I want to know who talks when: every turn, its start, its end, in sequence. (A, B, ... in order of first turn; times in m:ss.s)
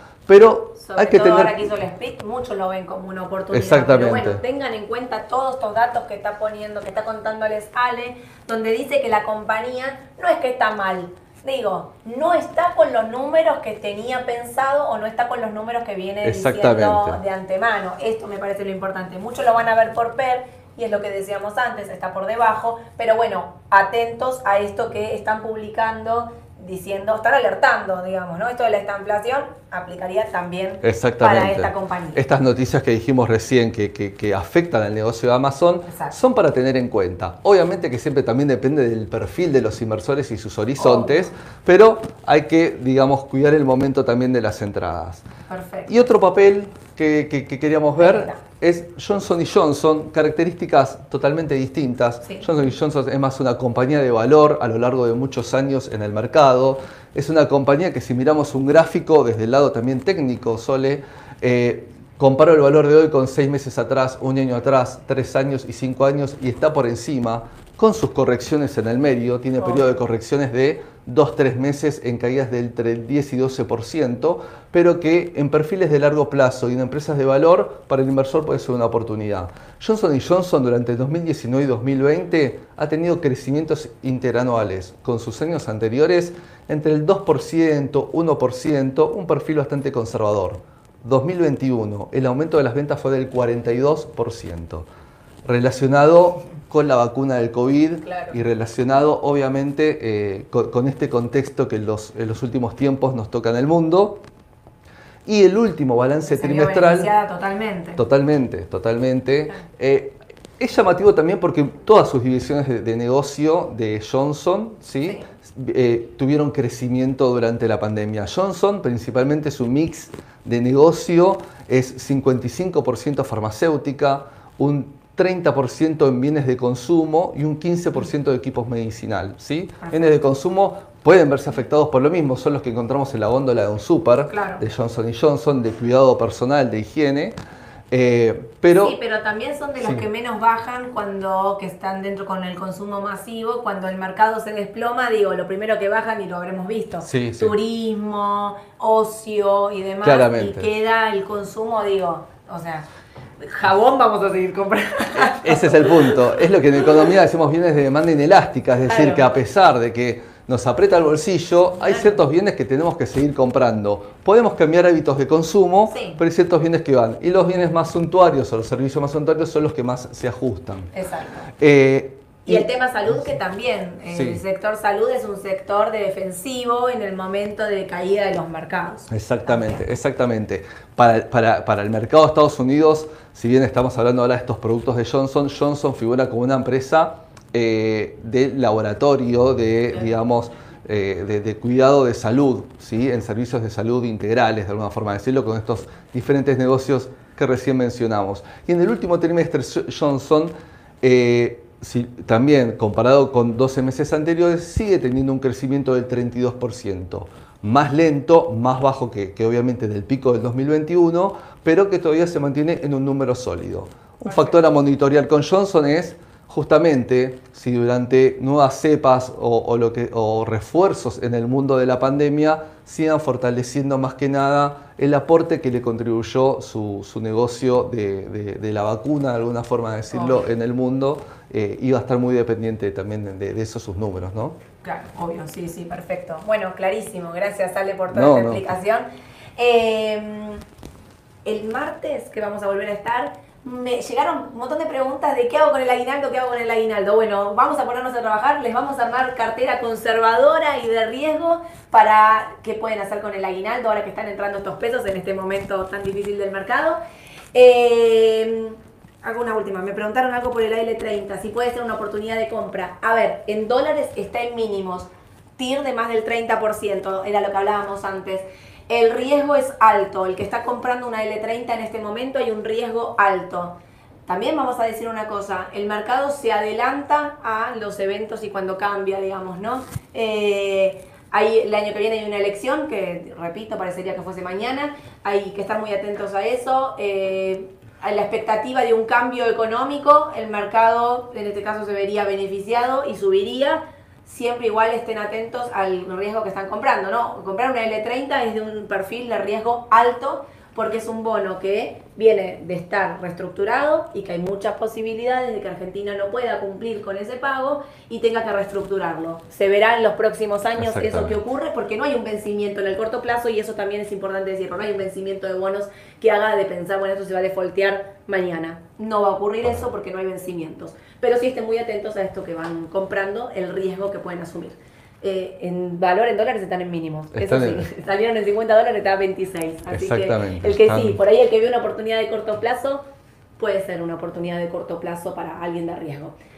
0:00.3-0:01.5 A
0:00.8-0:32.2 B
0:03.5-0:04.4 A
0:16.2-0:17.2 A
0:30.8-0:45.2 A
0:35.9-0:36.1 B
0:40.8-0:41.3 B
0:45.5-0:46.0 B
0:45.9-1:34.9 A
0:48.0-0:48.4 B
0:52.2-0:52.5 B
1:35.4-1:44.2 A
1:38.0-1:38.4 B
1:45.2-1:47.1 A
1:46.4-1:48.0 B
1:48.0-2:17.3 A
2:09.8-2:10.2 B
2:14.3-2:14.6 B
2:17.9-2:19.0 A
2:18.7-2:32.9 B
2:27.0-2:27.5 A
2:30.0-2:30.7 A
2:33.4-2:36.3 B
2:35.3-2:50.9 A
2:38.9-2:39.2 B
2:41.8-2:42.2 B
2:45.9-2:46.2 B
2:50.9-2:51.5 B
2:51.6-2:52.7 A
2:52.4-2:59.1 B
2:54.1-2:54.4 A
2:59.1-3:54.5 A
3:34.2-3:34.5 B
3:50.1-3:50.4 B
3:54.8-4:00.6 B
3:58.1-3:58.8 A
4:01.4-4:17.0 B
4:17.5-5:33.0 B
5:10.8-5:11.3 A
5:27.3-5:27.8 A
5:29.9-5:31.2 A
5:33.6-5:36.4 B